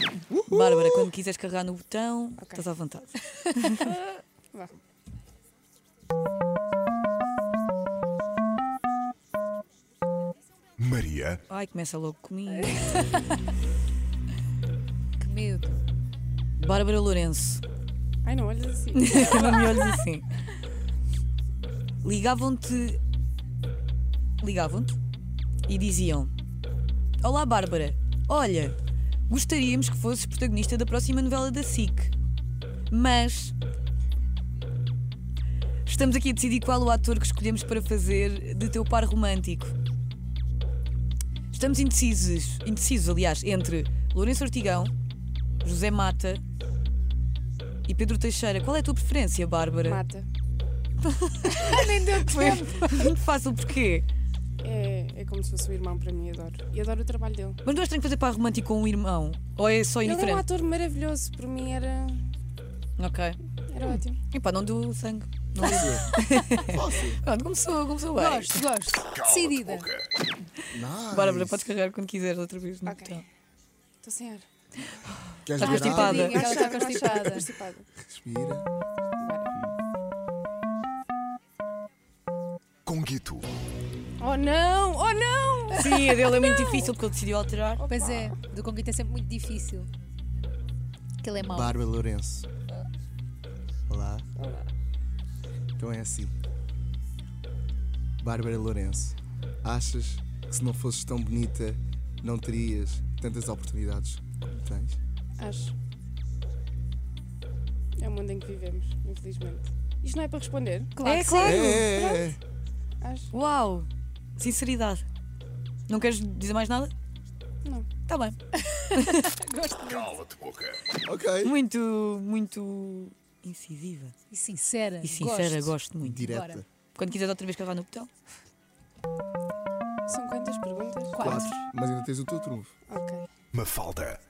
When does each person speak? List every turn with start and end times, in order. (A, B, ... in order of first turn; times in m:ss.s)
0:00.3-0:01.1 A
0:00.5-0:03.8 B
0:02.4-0:02.6 C
0:03.8-0:04.7 C
0:10.8-0:11.4 D
0:11.5-0:13.0 B
0:15.2-0:15.8 E
0:16.6-0:17.6 B
0:18.2-0:20.0 C
0:18.9-0:20.3 B
0:22.0-0:23.0 B
0:24.4-0:25.0 B
0:25.7-0:26.3 B
0:27.2-0:28.8 B
0:29.3-0:32.1 B
0:32.9-0:33.5 B
0:35.8-0:39.7 B
0:41.5-0:44.9 B
0:45.6-0:46.4 B
0:47.9-0:50.0 B
0:49.8-0:50.3 C
0:51.2-0:54.1 B
0:51.4-0:53.2 E
0:54.6-0:57.6 C
0:57.6-1:00.4 B
1:00.0-1:02.3 C
1:03.0-1:03.4 B
1:03.7-1:04.2 C
1:04.3-1:08.7 B
1:05.6-1:06.1 A
1:06.6-1:07.2 A
1:08.1-1:09.9 E
1:10.7-1:11.7 A
1:11.1-1:13.2 B
1:12.9-1:13.2 C
1:14.0-1:14.5 C
1:15.4-1:16.5 A
1:15.6-1:16.5 B
1:15.6-1:17.5 E
1:16.1-1:17.9 C
1:18.0-1:18.7 A
1:19.2-1:19.5 C
1:22.8-1:23.5 D
1:24.2-1:26.9 C
1:25.7-1:27.8 B
1:27.8-1:28.3 C
1:27.9-1:29.9 E
1:31.2-1:31.8 E
1:31.4-1:32.4 A
1:33.9-1:34.2 A
1:34.4-1:34.7 C
1:35.8-1:36.3 A
1:38.2-1:45.0 A
1:45.4-1:45.7 C
1:48.0-1:50.9 C
1:51.0-1:51.7 E
1:51.0-1:51.9 B
1:51.4-1:52.4 A
1:51.7-1:52.3 C
1:53.0-1:53.3 C
1:53.3-1:55.0 B
1:55.9-1:56.9 B
1:57.6-1:57.9 C
1:58.1-1:58.4 B
1:58.9-1:59.3 B
1:59.1-2:00.2 E
2:00.1-2:00.8 D
2:01.0-2:01.6 A
2:01.4-2:04.1 B
2:04.3-2:05.7 E
2:05.0-2:06.3 B
2:06.0-2:06.7 A
2:06.2-2:06.6 E
2:07.0-2:08.1 B
2:10.1-2:11.4 C
2:11.1-2:11.6 E
2:11.2-2:12.7 A
2:12.9-2:13.3 C
2:13.5-2:14.2 D